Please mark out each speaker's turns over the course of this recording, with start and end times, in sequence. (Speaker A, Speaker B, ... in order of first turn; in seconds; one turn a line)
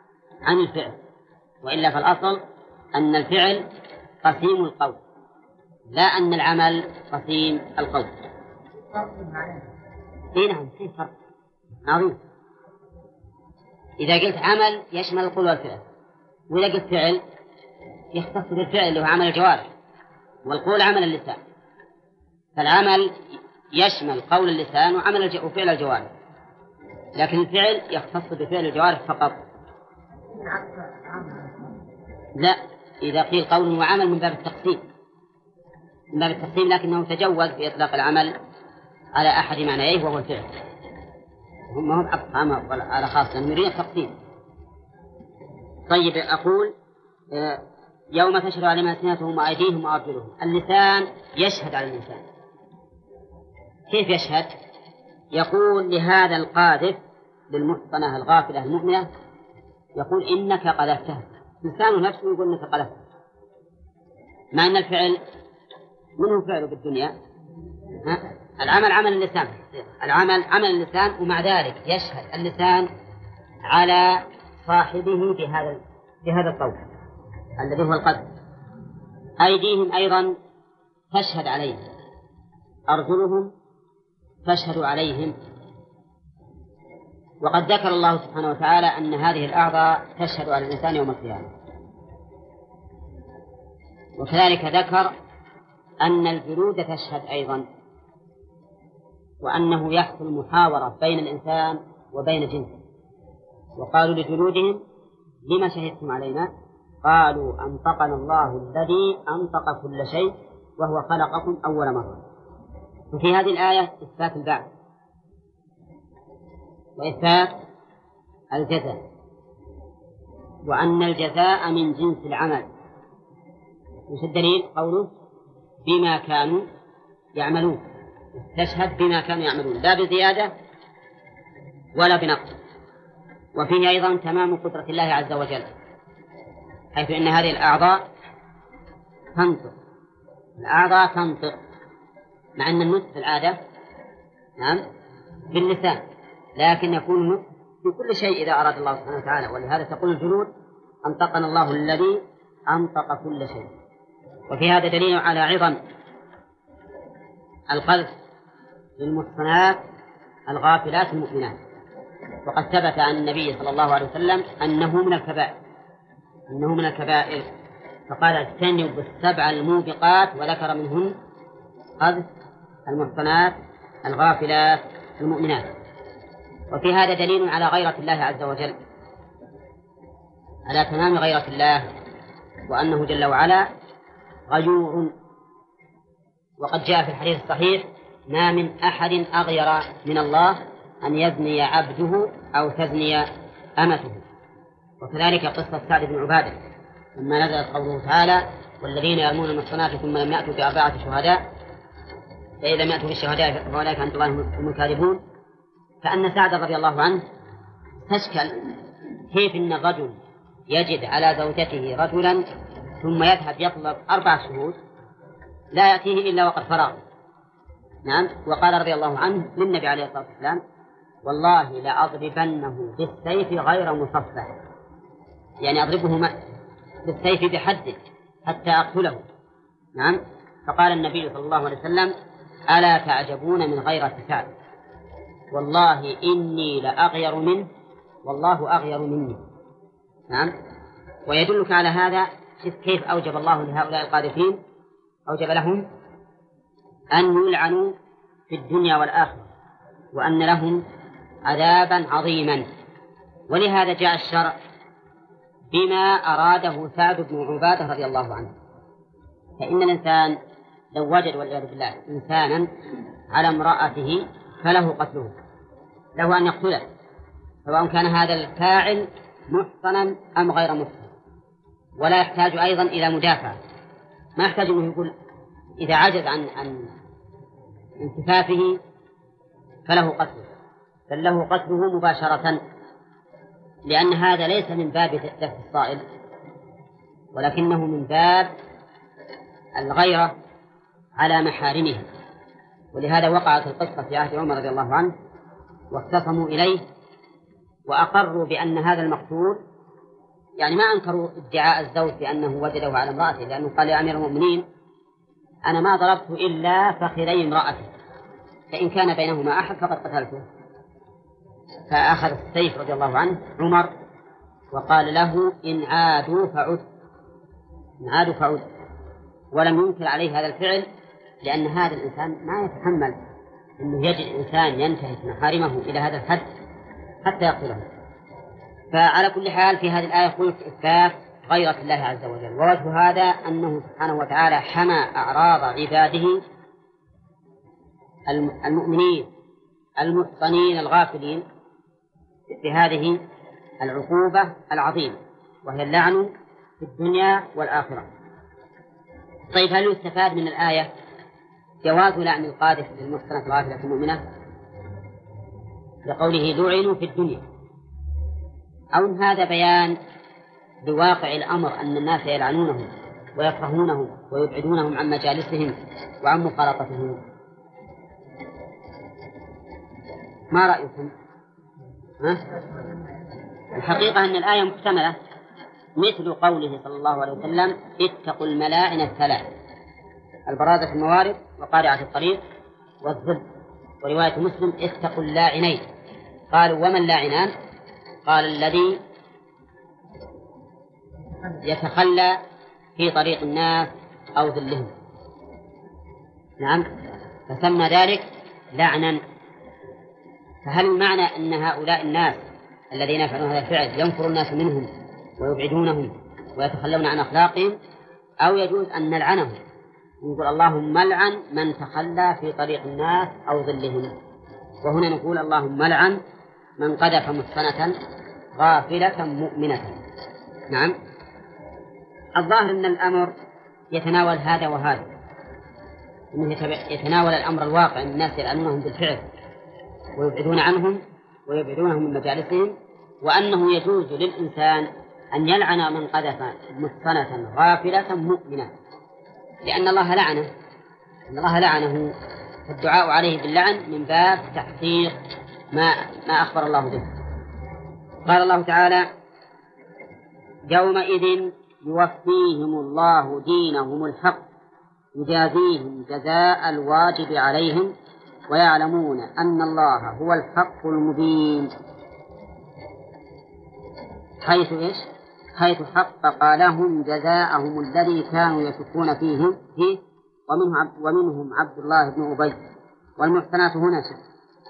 Speaker A: 0.5-1.0
Speaker A: 1.6-2.4
Speaker A: 2.9-3.7
Speaker A: 4.2-5.0
Speaker A: 5.9-8.1
Speaker A: 10.3-11.1
Speaker A: 11.8-12.2
Speaker A: 14.0-15.8
Speaker A: 16.5-17.2
Speaker A: 18.1-19.7
Speaker A: 20.5-21.4
Speaker A: 22.6-23.2
Speaker A: 23.8-26.1
Speaker A: 27.2-29.4
Speaker A: 32.4-34.8
Speaker A: 36.1-38.4
Speaker A: 39.2-40.5
Speaker A: 41.7-44.1
Speaker A: 45.9-46.7
Speaker A: 47.3-47.6
Speaker A: 48.1-52.2
Speaker A: 53.9-54.5
Speaker A: 55.3-57.0
Speaker A: 57.5-59.1
Speaker A: 60.0-63.0
Speaker A: 64.5-65.2
Speaker A: 66.2-67.1
Speaker A: 68.0-72.9
Speaker A: 73.7-76.8
Speaker A: 77.6-78.3
Speaker A: 79.4-80.3
Speaker A: 81.1-81.8
Speaker A: 82.9-83.5
Speaker A: 84.5-85.3
Speaker A: 87.4-91.5
Speaker A: 94.2-95.1
Speaker A: 96.0-97.7
Speaker A: 99.4-102.8
Speaker A: 103.8-104.8
Speaker A: 105.5-106.5
Speaker A: 107.0-112.2
Speaker A: 113.1-114.7
Speaker A: 117.0-117.5
Speaker A: 118.5-119.0
Speaker A: 120.7-122.7
Speaker A: 124.1-125.1
Speaker A: 125.8-126.7
Speaker A: 127.3-127.8
Speaker A: 128.4-130.5
Speaker A: 132.0-132.6
Speaker A: 133.6-135.7
Speaker A: 136.9-138.0
Speaker A: 139.3-139.8
Speaker A: 140.6-141.6
Speaker A: 142.6-143.6
Speaker A: 145.5-146.0
Speaker A: 146.6-150.5
Speaker A: 151.1-153.7
Speaker A: 154.5-155.8
Speaker A: 157.7-158.1
Speaker A: 159.0-159.8
Speaker A: 160.5-161.6
Speaker A: 162.4-165.6
Speaker A: 166.5-167.5
Speaker A: 168.1-171.2
Speaker A: 172.0-172.3
Speaker A: 172.9-175.7
Speaker A: 176.7-178.8
Speaker A: 180.7-181.9
Speaker A: 182.7-183.7
Speaker A: 184.5-185.1
Speaker A: 186.6-194.2
Speaker A: 195.0-196.6
Speaker A: 197.2-201.4
Speaker A: 202.6-205.2
Speaker A: 206.0-207.2
Speaker A: 208.1-208.8
Speaker A: 209.3-210.2
Speaker A: 210.7-212.5
Speaker A: 213.0-214.8
Speaker A: 215.7-217.0
Speaker A: 218.1-220.6
Speaker A: 221.2-224.6
Speaker A: 225.6-226.3
Speaker A: 227.1-229.2
Speaker A: 230.0-232.1
Speaker A: 232.7-234.5
Speaker A: 235.5-237.7
Speaker A: 238.2-239.4
Speaker A: 241.3-244.6
Speaker A: 245.3-245.8
Speaker A: 247.1-247.9
Speaker A: 248.5-249.5
Speaker A: 250.1-250.8
Speaker A: 251.5-252.7
Speaker A: 253.5-254.6
Speaker A: 255.7-258.5
Speaker A: 259.6-260.4
Speaker A: 260.9-262.7
Speaker A: 263.3-265.3
Speaker A: 266.2-266.9
Speaker A: 267.6-271.1
Speaker A: 272.0-273.6
Speaker A: 274.4-275.1
Speaker A: 275.8-276.9
Speaker A: 278.0-278.8
Speaker A: 279.9-280.5
Speaker A: 281.1-282.6
Speaker A: 283.9-286.0
Speaker A: 287.3-288.5
Speaker A: 289.8-290.4
Speaker A: 291.2-292.1
Speaker A: 292.9-295.1
Speaker A: 295.9-296.8
Speaker A: 297.9-299.6
Speaker A: 300.6-304.6
Speaker A: 305.7-307.9
Speaker A: 308.7-310.4
Speaker A: 311.9-313.9
Speaker A: 314.7-316.9
Speaker A: 318.0-318.7
Speaker A: 319.5-320.9
Speaker A: 321.4-323.2
Speaker A: 323.8-326.5
Speaker A: 327.2-327.9
Speaker A: 328.9-336.4
Speaker A: 338.3-339.3
Speaker A: 340.0-341.4
Speaker A: 342.5-343.2
Speaker A: 343.8-348.1
Speaker A: 349.5-350.9
Speaker A: 351.8-354.2
Speaker A: 356.1-357.4
Speaker A: 358.9-360.0
Speaker A: 360.8-367.2
Speaker A: 370.5-371.1
Speaker A: 373.7-375.2
Speaker A: 376.0-379.5
Speaker A: 380.5-382.4
Speaker A: 383.0-383.4
Speaker A: 384.0-385.8
Speaker A: 386.5-387.5
Speaker A: 388.2-389.0
Speaker A: 391.6-392.4
Speaker A: 393.0-394.9
Speaker A: 396.6-396.9
Speaker A: 397.5-399.2
Speaker A: 400.6-407.8
Speaker A: 408.4-409.6
Speaker A: 410.2-414.1
Speaker A: 414.8-416.2
Speaker A: 416.8-417.9
Speaker A: 418.6-420.0
Speaker A: 422.4-423.3
Speaker A: 423.9-425.1
Speaker A: 426.3-429.2
Speaker A: 430.2-438.7
Speaker A: 439.6-440.5
Speaker A: 441.3-442.1
Speaker A: 442.7-445.2
Speaker A: 445.7-447.1
Speaker A: 448.3-449.1
Speaker A: 450.7-454.4
Speaker A: 455.1-457.9
Speaker A: 458.5-461.7
Speaker A: 464.4-472.6
Speaker A: 473.2-474.2